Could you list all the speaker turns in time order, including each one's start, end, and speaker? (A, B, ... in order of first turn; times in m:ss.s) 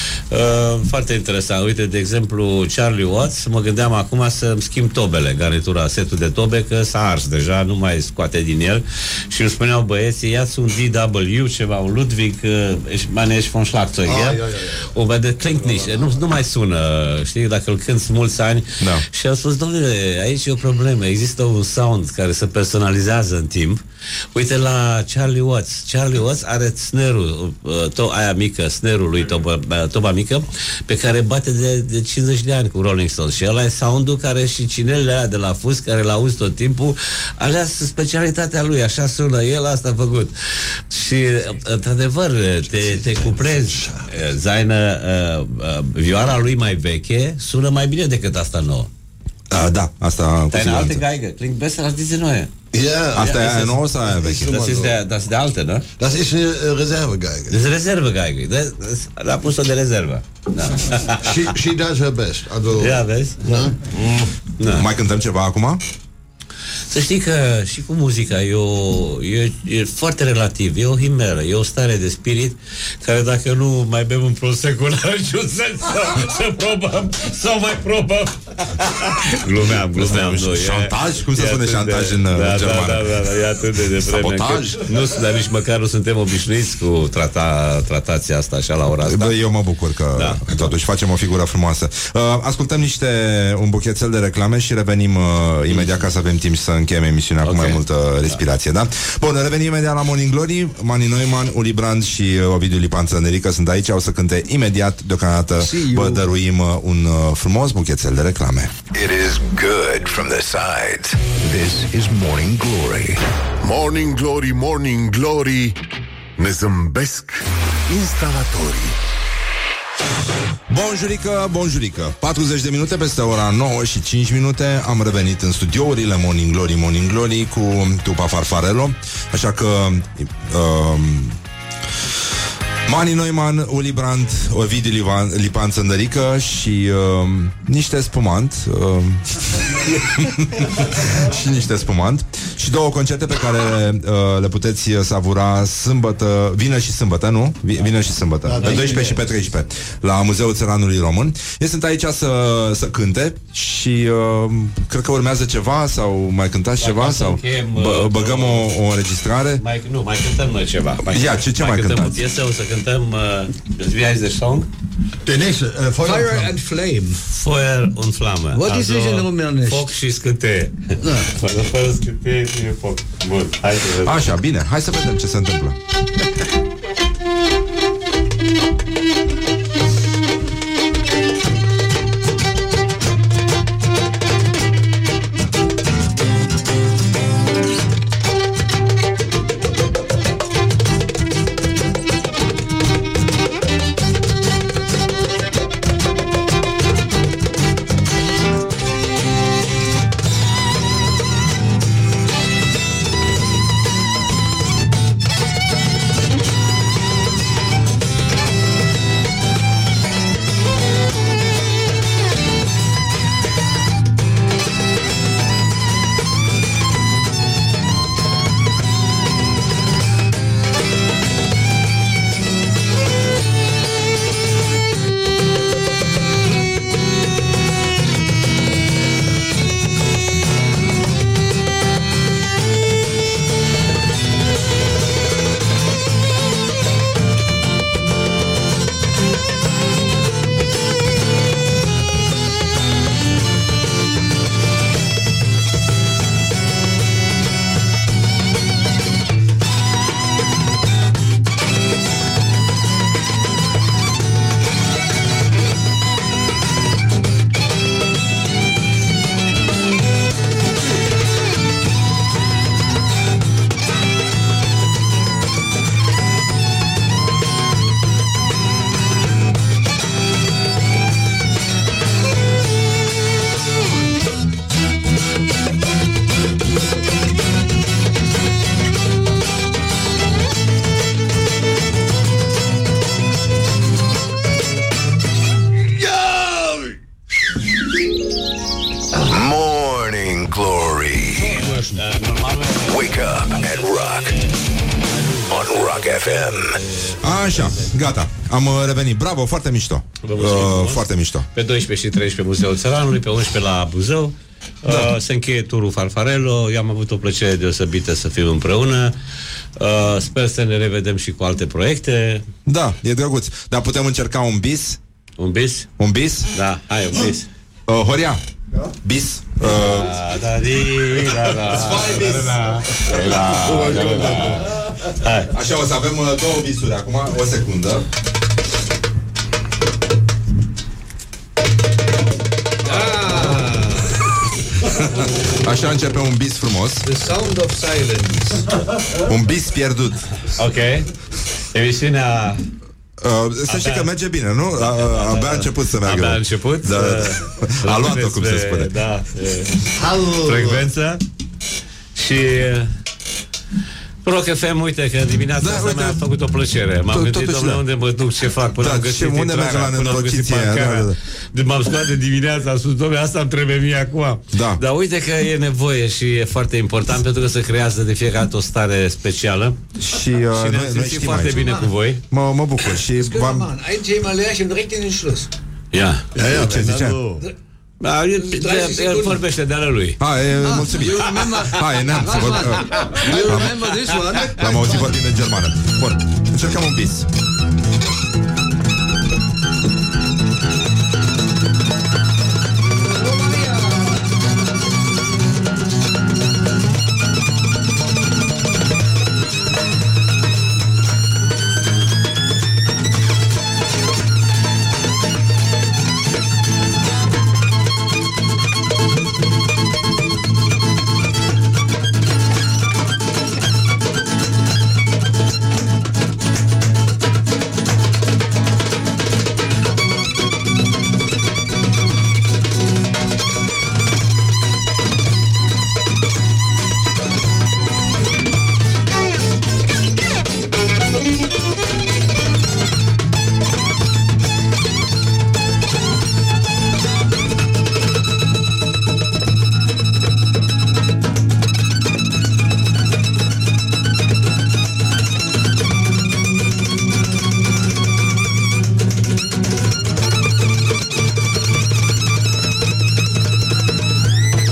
0:00.3-0:23.8 A
0:14.0-0:14.9 B
0:15.6-0:16.2 B
0:24.4-0:40.3 A
0:40.9-0:48.9 A
0:42.7-0:44.1 B
0:49.5-0:51.0 C
0:50.5-0:52.5 A
0:52.7-0:53.5 B
0:53.2-0:54.6 C
0:53.2-0:55.8 A
0:54.0-0:55.0 B
0:56.0-0:57.6 B
0:57.5-1:01.5 A
1:01.2-1:03.8 B
1:02.8-1:03.4 A
1:04.0-1:04.2 D
1:04.6-1:04.9 A
1:04.7-1:05.8 C
1:06.9-1:29.4 A
1:19.9-1:23.3 C
1:24.0-1:24.8 C
1:29.0-1:48.7 C
1:30.1-1:30.7 A
1:35.7-1:36.0 A
1:37.4-1:38.4 A
1:45.6-1:46.2 E
1:48.9-1:53.2 F
1:53.6-1:55.8 D
1:56.4-1:59.0 D
2:00.7-2:11.4 C
2:12.9-2:39.6 C
2:28.5-2:29.2 B
2:36.8-2:38.8 A
2:39.6-2:44.7 A
2:41.0-2:42.2 C
2:45.3-2:46.6 B
2:46.0-2:47.2 E
2:47.3-2:54.3 A
2:48.5-2:50.0 E
2:51.0-2:51.3 E
2:54.0-2:55.8 C
4:49.2-4:51.6 F
4:51.4-4:54.4 A
4:52.9-4:54.4 F
4:55.2-4:58.0 A
4:55.4-4:56.8 F
4:57.2-5:01.5 C
5:00.2-5:09.1 A
5:04.9-5:05.1 C
5:09.8-5:12.4 A
5:12.7-5:15.0 C
5:15.4-5:15.9 A
5:16.0-5:16.5 C
5:16.5-5:17.5 A
5:17.9-5:18.4 C
5:19.0-5:20.2 C
5:19.6-5:25.5 A
5:21.9-5:22.4 C
5:23.7-5:24.3 B
5:25.5-5:28.1 C
5:32.8-5:34.2 E
5:34.8-5:37.1 C
5:37.1-5:38.8 E
5:39.2-5:40.2 C
5:40.6-5:41.1 A
5:41.7-5:42.6 A
5:43.2-5:48.9 C
5:43.7-5:44.1 A
5:44.7-5:51.2 A
5:50.0-5:50.8 B
5:52.2-5:52.9 A
5:54.2-6:09.8 A
5:55.6-5:56.2 C
5:57.1-5:57.8 C
5:58.8-6:01.2 C
6:04.5-6:04.8 C
6:10.0-6:11.8 C
6:10.5-6:12.2 A
6:11.6-6:11.9 E
6:12.3-6:13.7 C
6:13.1-6:15.5 E
6:15.9-6:16.4 A
6:16.4-6:17.2 C
6:16.4-6:17.4 D
6:18.0-6:20.2 A
6:18.4-6:19.4 E
6:20.2-6:23.8 C
6:20.6-6:24.9 E
6:24.5-6:27.3 C